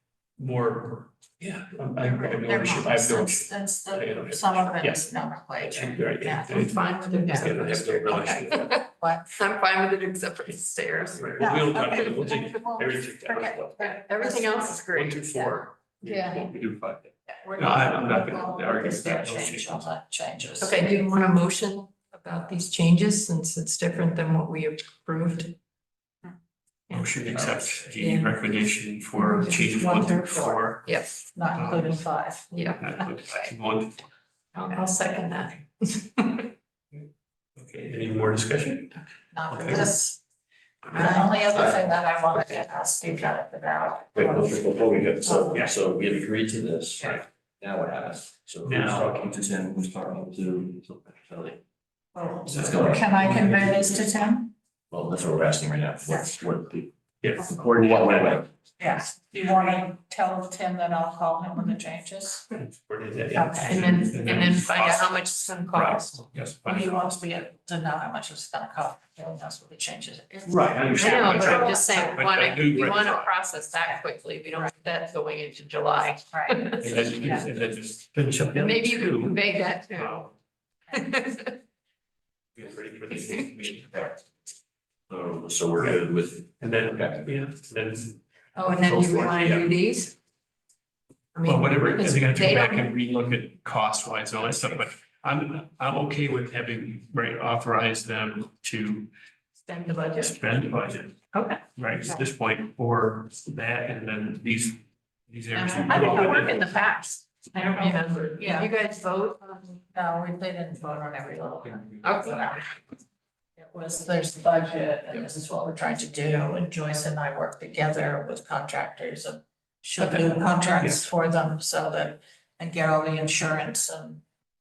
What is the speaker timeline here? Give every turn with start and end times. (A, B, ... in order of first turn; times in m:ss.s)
0:00.4-0:05.1 A
0:02.0-0:09.3 B
0:05.6-0:08.7 A
0:06.4-0:12.3 C
0:11.2-0:13.9 A
0:11.4-0:14.9 B
0:13.8-0:16.4 C
0:14.8-0:19.9 A
0:17.3-0:20.9 B
0:20.6-0:25.5 C
0:26.9-0:28.4 C
0:26.9-0:30.8 A
0:29.2-0:29.5 C
0:29.3-0:30.8 B
0:30.8-0:31.1 C
0:31.3-0:32.5 B
0:31.5-0:32.0 A
0:32.4-0:33.5 C
0:32.8-0:34.0 A
0:34.5-0:36.5 C
0:37.6-0:38.9 A
0:39.3-0:40.2 B
0:39.5-0:40.0 A
0:40.9-0:41.3 A
0:40.9-0:44.6 B
0:44.1-0:51.6 D
0:45.2-0:45.7 B
0:48.6-0:49.2 A
0:52.1-0:54.5 B
0:52.4-0:53.6 D
0:52.5-0:53.7 A
0:54.9-0:56.9 D
0:57.2-0:58.4 A
0:57.8-0:58.4 D
0:58.8-1:02.5 B
1:02.6-1:05.1 A
1:03.3-1:04.1 B
1:03.6-1:06.2 C
1:05.7-1:07.0 A
1:06.6-1:12.2 B
1:10.4-1:13.3 A
1:10.9-1:17.4 C
1:16.3-1:16.7 B
1:16.8-1:19.4 A
1:18.5-1:20.2 C
1:19.9-1:20.3 A
1:20.9-1:21.6 C
1:22.6-1:24.1 A
1:25.1-1:27.2 D
1:26.6-1:29.7 A
1:28.6-1:30.1 C
1:31.3-1:32.9 C
1:31.4-1:39.1 A
1:39.6-1:40.3 C
1:40.2-1:46.6 A
1:41.3-1:41.6 C
1:45.5-1:46.7 B
1:45.8-1:49.8 C
1:47.8-1:48.7 B
1:49.9-1:52.8 B
1:52.0-1:52.5 C
1:53.6-2:04.2 B
2:00.0-2:00.3 C